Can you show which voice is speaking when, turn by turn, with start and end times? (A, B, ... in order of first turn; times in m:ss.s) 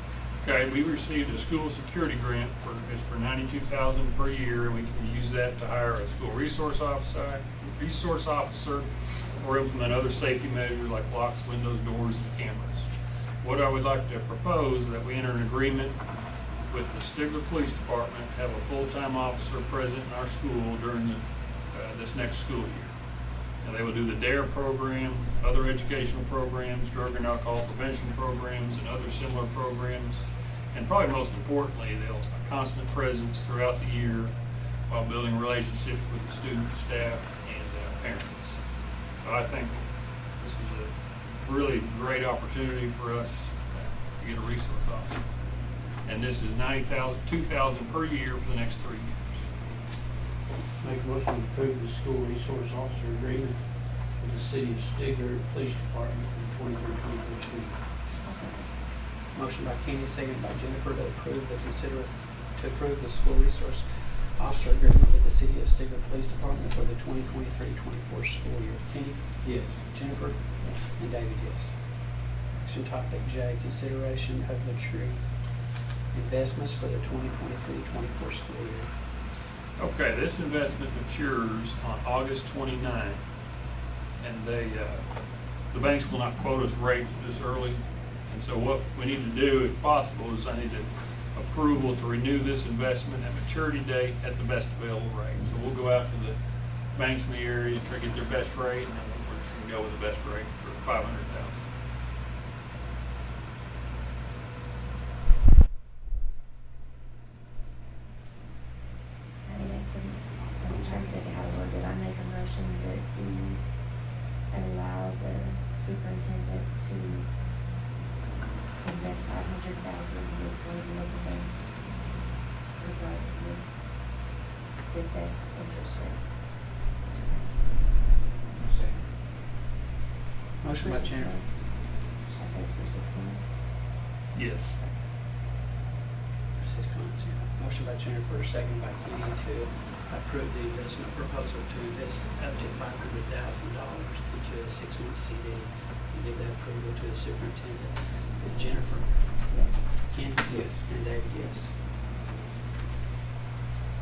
0:00.4-0:12.9 A
0:13.4-0:16.0 A
0:16.7-0:23.0 A
0:23.6-0:34.3 A
0:34.9-0:38.6 A
0:39.2-0:45.2 A
0:46.0-0:49.4 A
0:50.8-0:57.8 B
0:58.2-0:58.7 C
0:59.3-1:11.8 D
1:09.4-1:09.8 B
1:10.6-1:11.0 C
1:12.6-1:15.2 D
1:16.1-1:18.9 D
1:19.8-1:23.2 A
1:24.2-1:36.4 A
1:36.9-1:41.7 A
1:49.4-1:57.3 C
1:50.0-1:51.2 D
1:58.8-2:02.0 C
2:02.7-2:04.2 C
2:04.9-2:06.4 C
2:07.1-2:07.4 C
2:08.5-2:09.0 B
2:10.6-2:11.4 D
2:10.8-2:13.5 C
2:14.3-2:14.8 A
2:16.6-2:31.8 D
2:29.5-2:30.0 C
2:30.5-2:30.8 B